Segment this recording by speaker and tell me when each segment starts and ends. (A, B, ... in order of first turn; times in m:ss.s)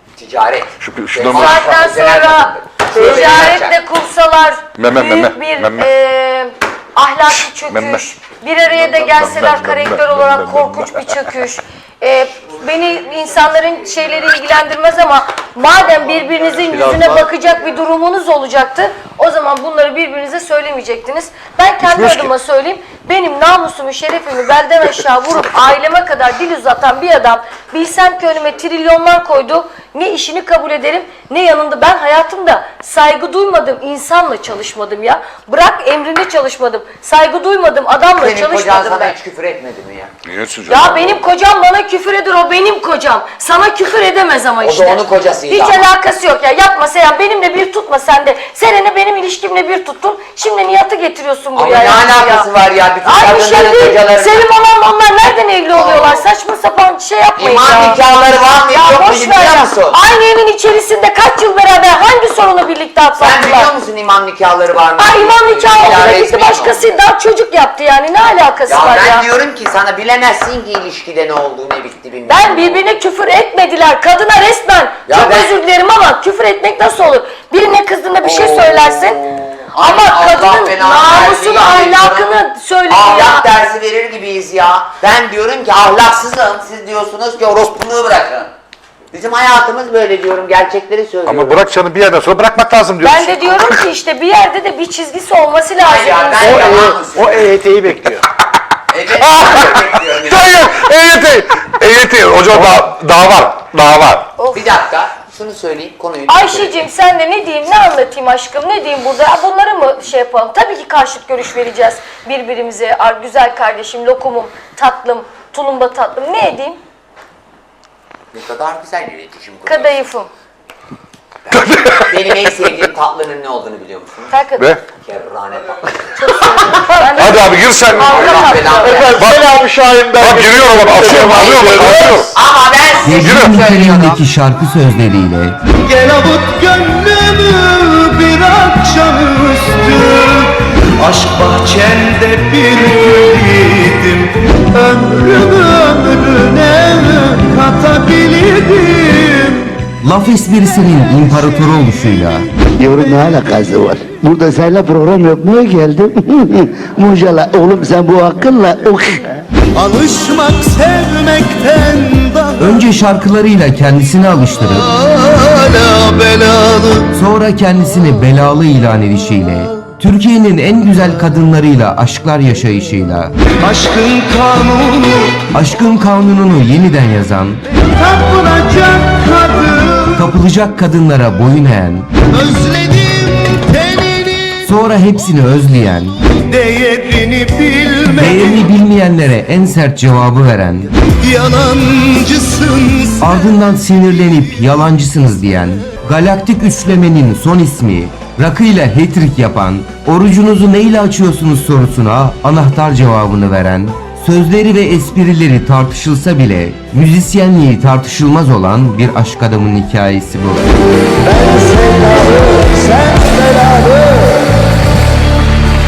0:00.2-0:03.8 A
0:00.8-0:01.6 B
0:01.3-0:39.2 C
0:04.8-0:05.9 B
0:07.6-0:08.0 B
0:08.8-0:11.0 B
0:16.8-0:17.1 B
0:38.2-0:40.1 A
0:40.3-0:41.2 B
0:40.7-0:52.5 C
0:44.6-0:45.9 A
0:51.6-0:54.5 A
0:53.0-0:58.0 C
0:55.8-0:56.2 A
0:57.4-1:00.0 A
0:58.7-1:03.7 C
1:03.2-1:06.9 A
1:05.0-1:09.2 C
1:08.7-1:12.8 A
1:12.3-1:23.5 C
1:15.1-1:15.5 A
1:19.8-1:22.3 A
1:22.9-1:28.5 A
1:29.1-1:31.7 A
1:31.3-1:33.7 B
1:33.0-1:36.9 C
1:35.8-1:37.6 A
1:36.4-1:38.2 D
1:38.9-1:40.7 A
1:39.2-1:44.3 B
1:44.4-1:44.6 C
1:44.5-1:46.8 A
1:46.3-1:56.8 C
1:58.3-2:00.0 A
1:59.6-2:00.3 C
2:01.5-2:04.3 A
2:01.7-2:02.1 B
2:04.3-2:04.7 C
2:04.6-2:04.8 B
2:04.8-2:06.1 A
2:06.2-2:09.2 C
2:07.2-2:12.4 B
2:07.9-2:09.3 A
2:08.8-2:12.2 D
2:11.0-2:14.2 A
2:13.0-2:15.6 E
2:13.2-2:13.6 B
2:15.7-2:29.8 F
2:30.0-2:32.5 E
2:32.8-2:39.4 G
2:39.7-2:42.7 F
2:42.6-2:44.9 E
2:44.9-2:47.1 F
2:47.1-2:53.3 E
2:53.6-2:55.5 F
2:55.5-2:57.6 E
2:58.0-3:00.2 F
3:00.2-3:02.1 E
3:02.3-3:04.6 F
3:04.6-3:06.2 E
3:06.4-3:08.7 F
3:08.2-3:10.9 E
3:11.1-3:13.3 F
3:13.2-3:30.6 E
3:31.3-3:34.3 F